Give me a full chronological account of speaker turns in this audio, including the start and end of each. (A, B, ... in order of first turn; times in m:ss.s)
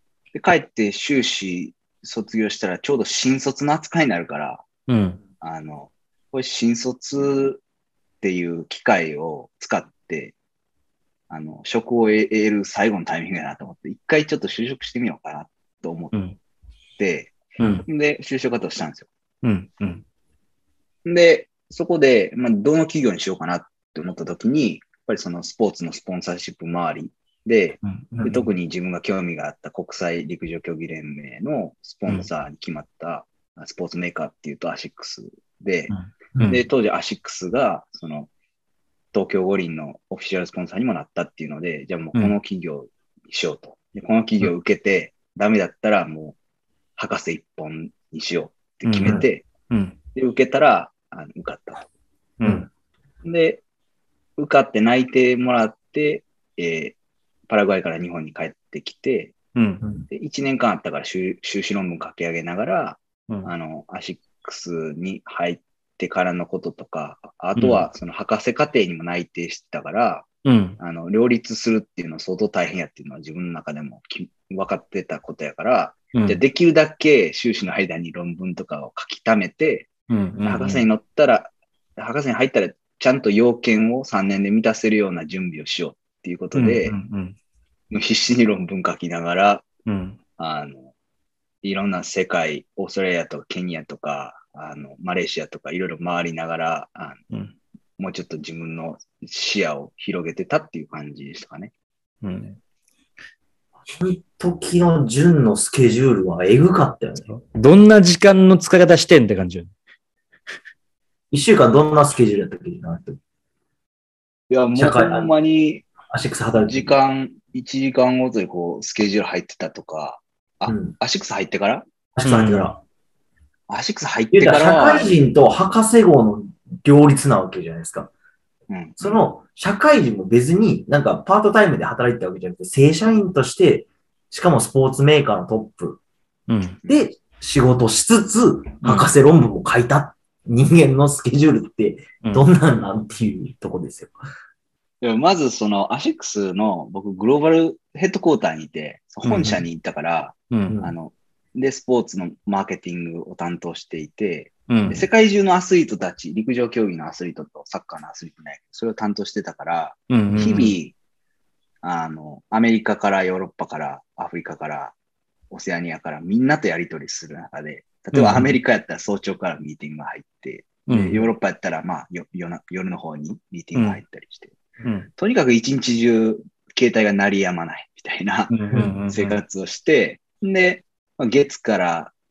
0:00.3-0:04.6 A
0:04.9-0:05.2 B
0:05.4-0:07.6 A
0:08.2-0:10.4 A
0:11.3-0:16.1 A
0:17.0-0:19.1 A
0:17.6-0:17.8 B
0:19.4-0:20.0 B
0:21.0-0:35.9 A
0:27.8-0:28.5 B
0:35.9-0:36.6 B
0:36.5-0:38.3 A
0:39.1-0:46.4 A
0:47.0-0:49.5 A
0:48.9-0:50.0 B
0:50.1-0:51.8 A
0:52.4-0:52.7 C
0:52.4-0:52.7 B
0:53.2-0:53.6 A
0:54.4-0:57.0 A
0:57.5-0:59.4 A
0:59.6-0:59.8 B
1:00.1-1:10.3 A
1:07.6-1:07.8 B
1:10.4-1:10.8 B
1:10.8-1:19.9 A
1:16.1-1:16.4 B
1:20.1-1:20.8 B
1:20.4-1:27.0 A
1:26.6-1:27.4 B
1:27.9-1:29.7 A
1:29.9-1:30.2 B
1:30.4-1:30.9 A
1:31.6-1:37.2 A
1:38.0-1:41.7 A
1:42.2-1:42.6 B
1:43.9-1:47.3 C
1:47.3-1:49.7 B
1:51.3-1:53.2 C
1:54.5-1:55.9 A
1:54.7-1:55.3 C
1:56.1-1:57.0 C
1:56.7-2:01.8 A
2:00.7-2:00.9 C
2:02.2-2:02.8 C
2:02.2-2:02.7 B
2:03.7-2:05.2 A
2:04.3-2:08.1 C
2:08.7-2:09.2 A
2:09.0-2:16.0 C
2:16.5-2:16.8 B
2:16.8-2:24.2 C
2:18.8-2:19.1 B
2:25.0-2:41.0 A
2:29.2-2:29.6 B
2:30.5-2:30.8 B
2:30.7-2:30.9 C
2:34.7-2:35.0 B
2:40.1-2:40.8 B
2:41.8-2:45.0 A
2:45.5-2:54.6 A
2:48.1-2:48.5 B
2:50.9-2:51.3 B
2:53.8-2:54.0 B
2:54.8-2:55.1 B
2:55.2-2:58.6 A
2:58.5-2:59.4 B
2:59.1-3:02.1 A